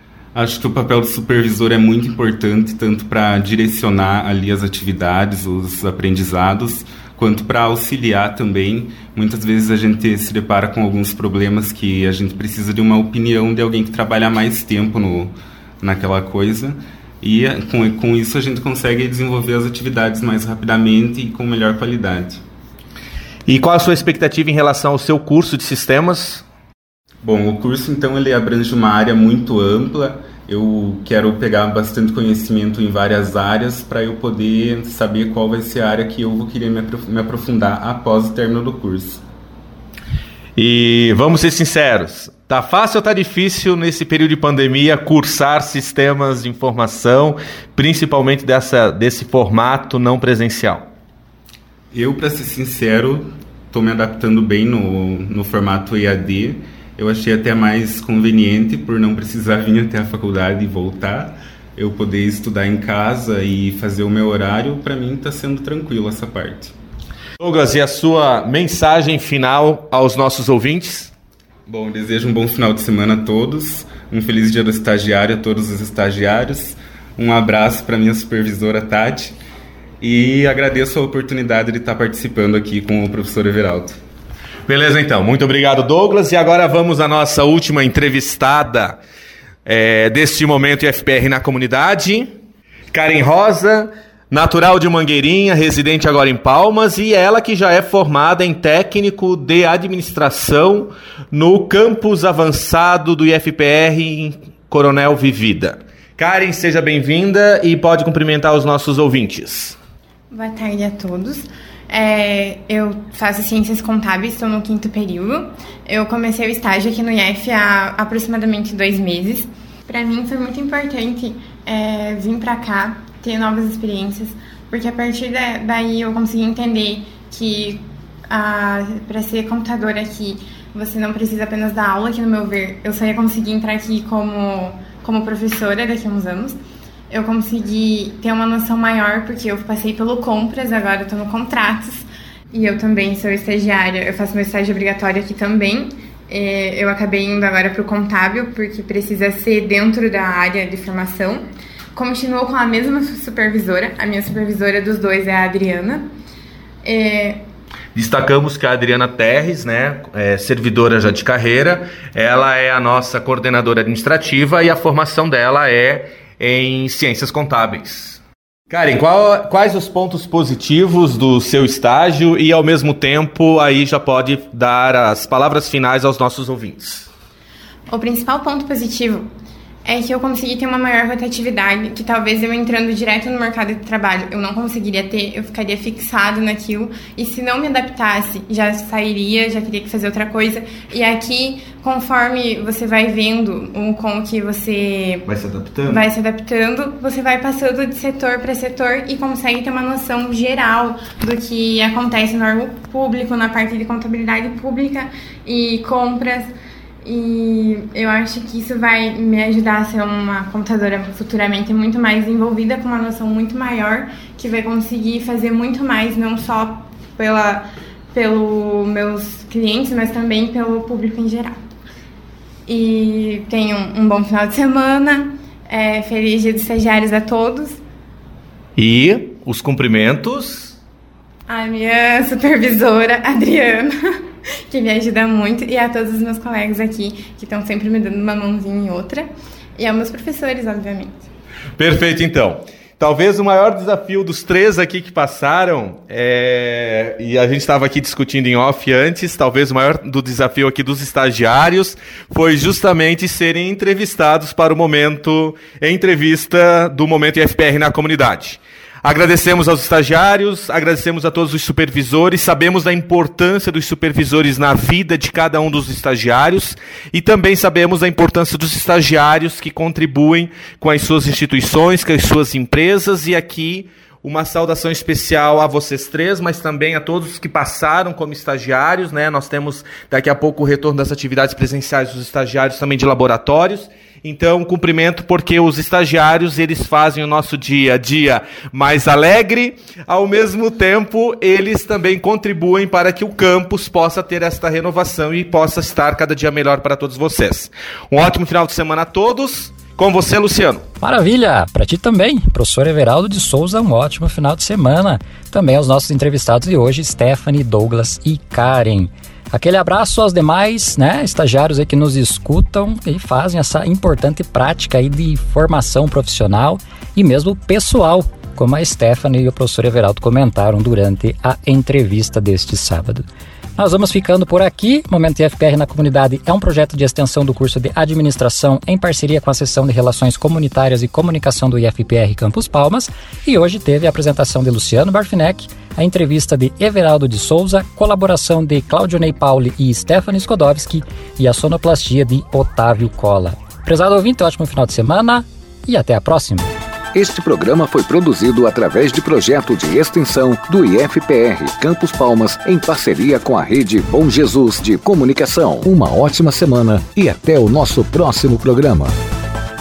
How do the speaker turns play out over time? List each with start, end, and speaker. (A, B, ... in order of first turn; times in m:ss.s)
0:00.4-0:22.4 A
0:23.5-0:26.4 B
0:27.2-0:39.2 A
0:40.6-0:50.9 B
0:51.9-1:06.7 A
1:07.4-1:11.1 B
1:11.7-1:19.4 A
1:20.0-1:24.0 A
1:24.7-1:29.0 B
1:29.7-1:32.3 B
1:32.9-1:49.8 B
1:50.3-2:31.4 C
2:32.0-2:36.0 C
2:36.8-2:37.4 C
2:38.0-2:57.1 B
2:57.9-2:59.3 C
2:59.8-3:15.2 C
3:15.2-3:16.0 B
3:15.9-3:41.6 C
3:42.7-3:47.8 C
3:48.8-3:50.8 B
3:51.5-3:53.9 C
3:54.7-4:01.3 C
4:01.8-5:00.8 B
5:01.0-5:23.2 D
5:23.8-5:46.7 D
5:47.1-5:59.1 E